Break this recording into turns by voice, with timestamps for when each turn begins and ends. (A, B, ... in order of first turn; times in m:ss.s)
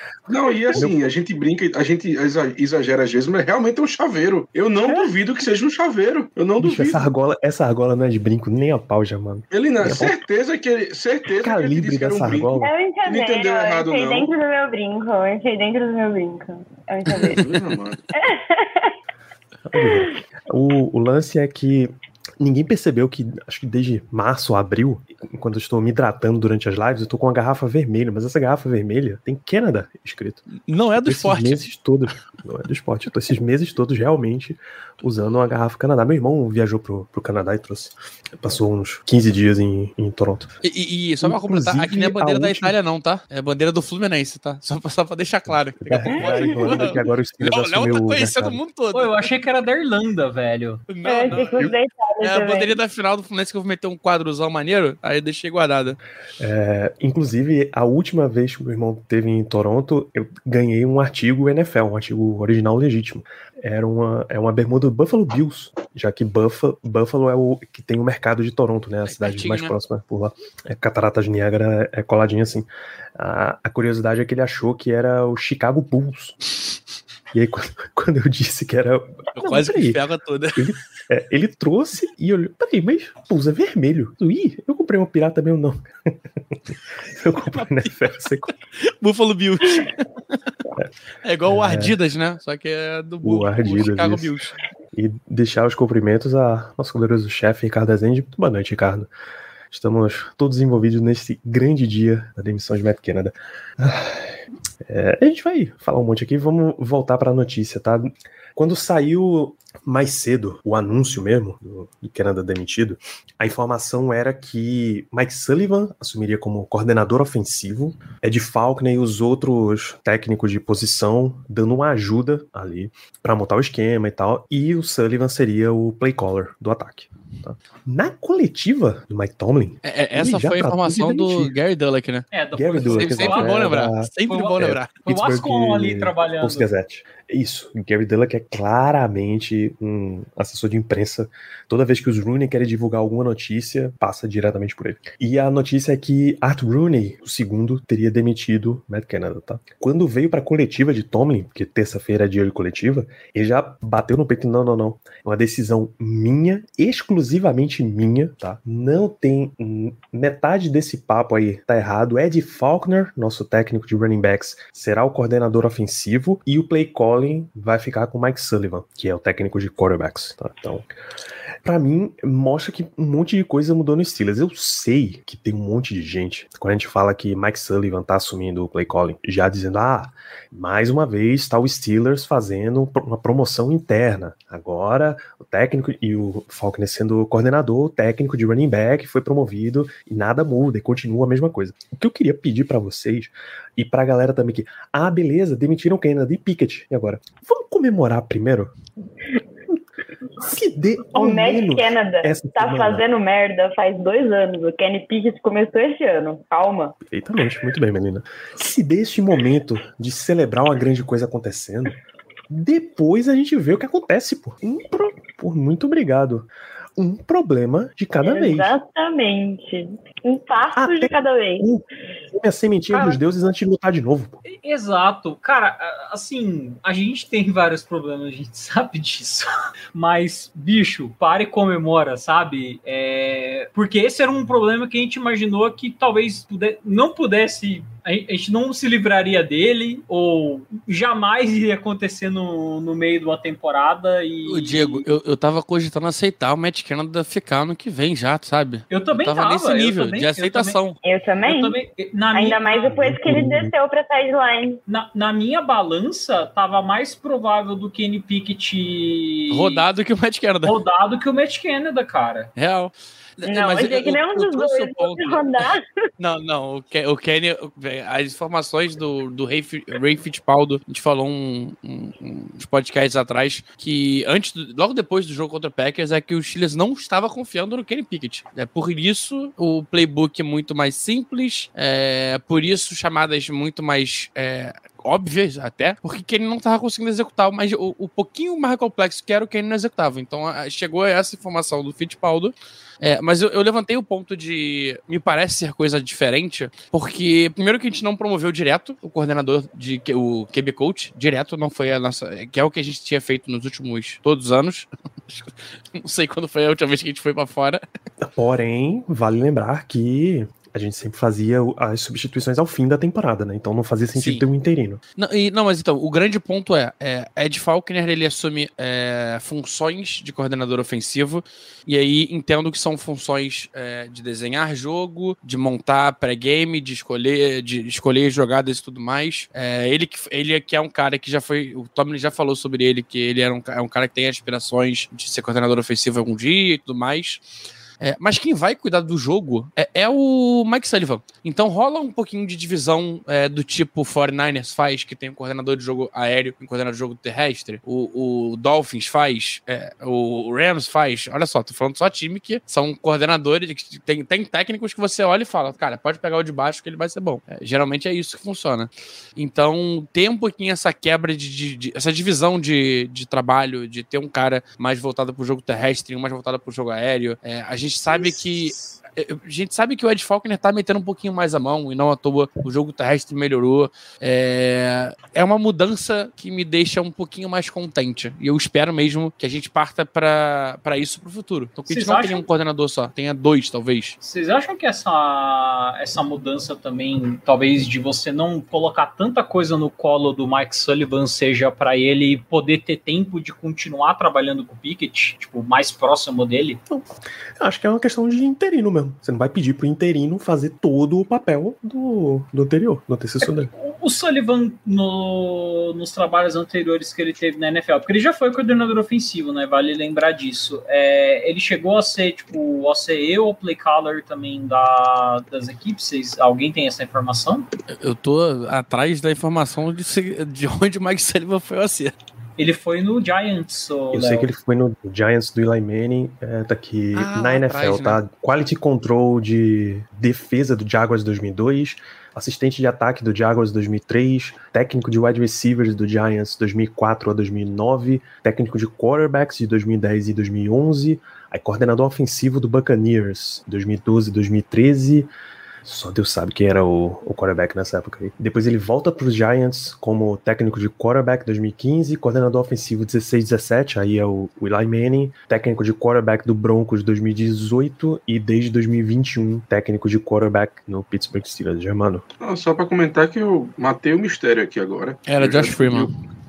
0:00.3-0:07.1 A
0:00.7-0:01.0 B
0:06.6-0:10.2 B
0:09.5-0:14.3 A
0:11.4-0:12.7 B
0:12.6-0:17.6 C
0:17.3-0:18.0 A
0:18.1-0:18.9 C
0:19.7-0:30.4 B
0:19.7-0:20.1 C
0:30.5-0:31.6 D
0:31.0-0:40.5 B
0:40.6-0:49.3 D
0:41.2-0:42.8 B
0:45.8-0:48.6 B
0:46.1-0:46.8 C
0:48.9-0:50.8 E
0:50.9-0:56.0 D
0:51.0-0:52.8 C
0:56.4-1:16.4 B
1:09.1-1:09.7 D
1:17.3-1:20.0 B
1:19.4-1:20.7 D
1:20.6-1:26.1 B
1:27.1-1:28.5 B
1:27.4-1:28.0 D
1:28.8-1:29.9 D
1:31.2-1:34.5 D
1:31.5-1:32.0 B
1:33.2-1:34.4 B
1:34.9-1:39.1 B
1:39.7-2:11.5 B
2:09.8-2:12.3 D
2:12.3-2:13.7 E
2:12.5-2:50.9 B
2:12.8-2:15.0 D
2:14.3-2:16.7 E
2:51.6-3:18.8 B
3:20.4-3:23.0 B
3:21.1-3:27.0 C
3:27.0-3:38.8 B
3:38.2-3:41.7 C
3:40.7-3:44.4 B
3:44.4-4:05.1 E
4:04.5-4:11.0 D
4:08.9-4:10.8 E
4:11.0-4:11.8 C
4:11.5-4:13.0 E
4:12.3-4:14.8 C
4:12.9-4:13.7 B
4:14.9-4:19.8 E
4:19.5-4:20.8 D
4:20.6-4:22.5 E
4:22.6-4:25.6 D
4:23.5-4:25.8 C
4:26.2-5:07.8 D
5:08.2-5:15.0 B
5:14.2-5:14.4 D
5:15.2-5:37.4 D
5:38.0-6:24.2 D
6:08.1-6:09.0 B
6:21.9-6:22.4 E
6:24.2-6:36.8 E
6:36.9-6:43.7 B
6:43.4-6:57.7 E
6:57.9-7:02.2 D
7:02.6-7:04.5 E
7:04.1-7:25.3 B
7:07.2-7:08.2 D
7:25.8-7:42.2 B
7:42.4-7:46.1 A
7:45.3-7:46.1 D